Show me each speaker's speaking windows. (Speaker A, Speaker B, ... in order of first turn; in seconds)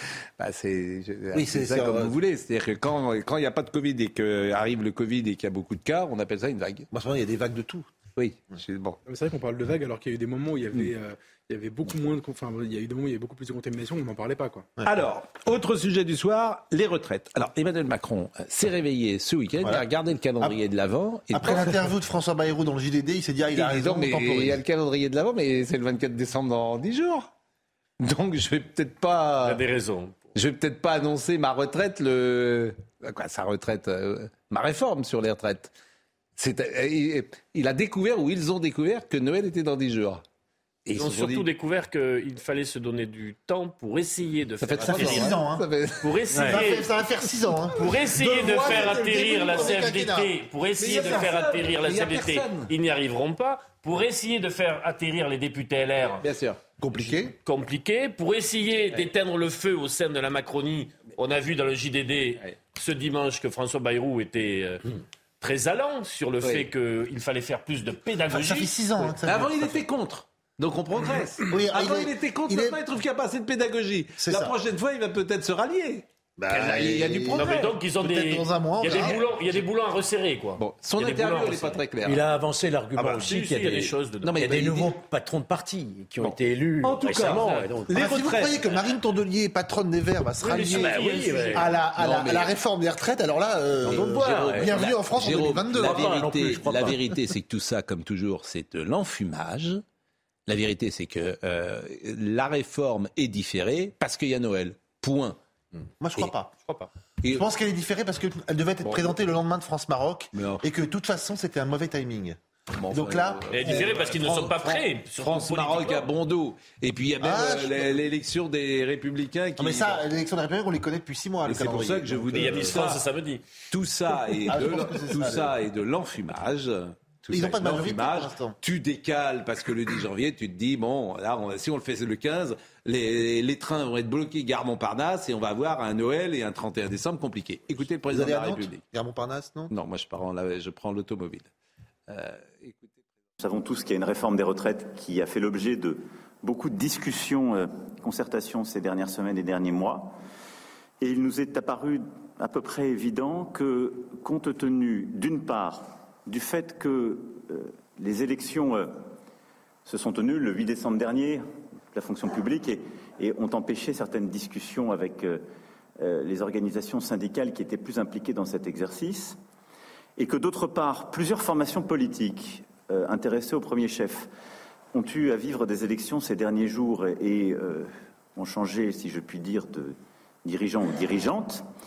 Speaker A: 0.4-6.9, 8.2-9.0, 14.8-21.9, 23.5-27.3, 28.0-29.6, 30.4-35.7, 36.4-40.2, 40.9-41.5, 44.6-46.5, 48.2-49.8, 50.8-52.7, 56.2-56.6, 66.4-66.7, 69.2-77.7, 80.6-82.3, 84.2-85.0, 86.2-88.6, 92.0-92.5, 93.8-99.8, 100.5-105.4, 108.8-109.1, 110.3-110.6, 112.8-120.0, 121.5-123.0, 123.7-138.8, 139.7-141.5, 142.1-142.9
Speaker B: 1.3-2.2, 6.9-7.9, 19.6-19.9, 21.3-24.6, 44.8-45.7, 46.4-50.3, 50.9-51.3, 56.8-57.4, 68.3-69.9, 71.5-72.8, 74.2-74.5, 76.4-79.2, 87.9-96.1, 106.0-106.5, 107.3-114.2, 117.2-118.0, 119.6-122.9, 124.5-125.5, 127.3-128.6, 138.1-139.7
Speaker C: 9.1-14.7
Speaker D: 29.4-30.2, 41.0-45.4, 46.0-47.0, 47.8-56.2, 57.3-64.9, 65.4-68.8, 77.3-81.8, 83.1-84.5, 87.0-87.7, 90.4-91.7, 113.5-116.1, 122.3-123.4
Speaker E: 82.0-88.3, 90.4-91.8, 93.8-94.9, 95.7-97.1
Speaker F: 143.4-150.2, 151.0-159.0, 159.8-161.4, 161.9-165.4, 166.0-169.4, 170.2-174.3, 174.9-181.7